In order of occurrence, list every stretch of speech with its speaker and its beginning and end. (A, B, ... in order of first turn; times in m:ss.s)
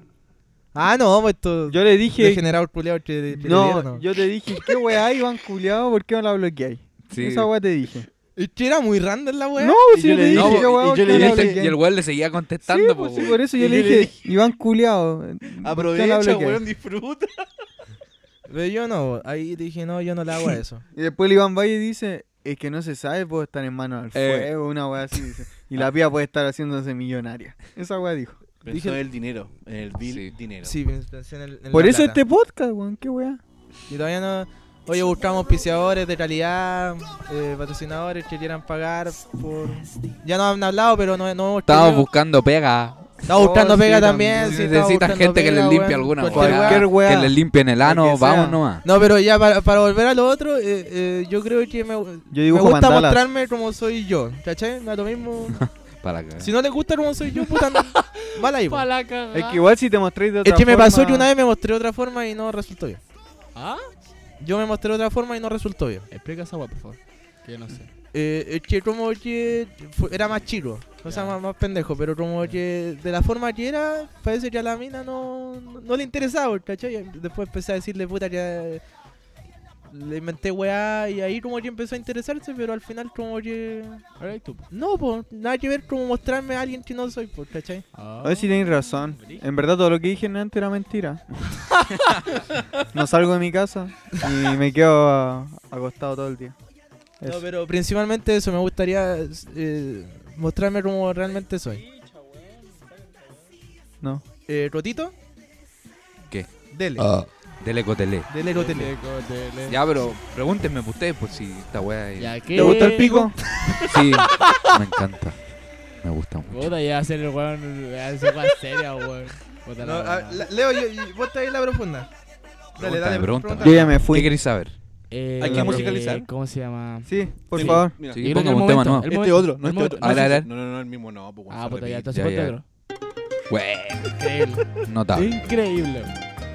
0:00.7-0:04.0 A
0:01.7-0:02.5 B
0:03.4-0:08.1 B
0:07.1-0:07.5 C
0:08.4-0:09.8 A
0:09.6-0:11.8 B
0:09.9-0:11.6 D
0:10.3-0:13.4 C
0:12.6-0:16.6 B
0:13.5-0:14.2 D
0:15.6-0:17.4 D
0:18.5-0:20.8 A
0:20.9-0:28.4 B
0:24.1-0:24.5 C
0:28.6-0:30.7 D
0:28.7-0:29.0 A
0:30.0-0:30.3 C
0:30.6-0:32.2 A
0:31.7-0:33.4 B
0:33.9-0:42.1 A
0:41.6-0:43.1 C
0:43.2-0:46.9 A
0:43.3-0:44.6 B
0:44.4-0:48.8 C
0:46.3-0:48.6 B
0:48.8-0:55.6 A
0:52.3-0:53.2 B
0:55.5-0:56.5 C
0:56.4-0:58.9 A
0:58.6-0:59.6 E
0:59.3-1:01.3 B
1:00.4-1:03.0 A
1:03.5-1:03.9 E
1:04.4-1:06.1 A
1:06.1-1:07.9 E
1:08.1-1:18.8 A
1:11.0-1:11.4 E
1:19.9-1:24.0 A
1:24.2-1:24.7 E
1:24.7-1:27.9 A
1:27.9-1:28.5 E
1:28.2-1:31.8 B
1:32.9-1:36.5 B
1:37.2-1:41.8 A
1:44.5-1:45.1 A
1:46.3-1:48.3 C
1:46.7-1:47.1 A
1:48.3-1:48.9 A
1:48.4-1:49.8 E
1:49.7-1:52.4 C
1:52.2-1:54.0 E
1:52.5-1:53.3 B
1:52.6-1:53.3 A
1:53.9-1:56.7 C
1:56.5-2:00.4 E
1:59.8-2:02.1 A
2:02.7-2:04.0 A
2:02.8-2:04.8 C
2:03.6-2:04.4 B
2:05.1-2:10.4 E
2:05.4-2:06.3 D
2:05.4-2:06.0 B
2:07.0-2:08.0 B
2:07.5-2:08.2 D
2:08.0-2:09.1 C
2:09.0-2:12.1 D
2:10.0-2:10.5 C
2:11.5-2:12.6 E
2:12.1-2:12.6 C
2:13.5-2:14.1 C
2:14.2-2:16.2 E
2:14.8-2:15.4 C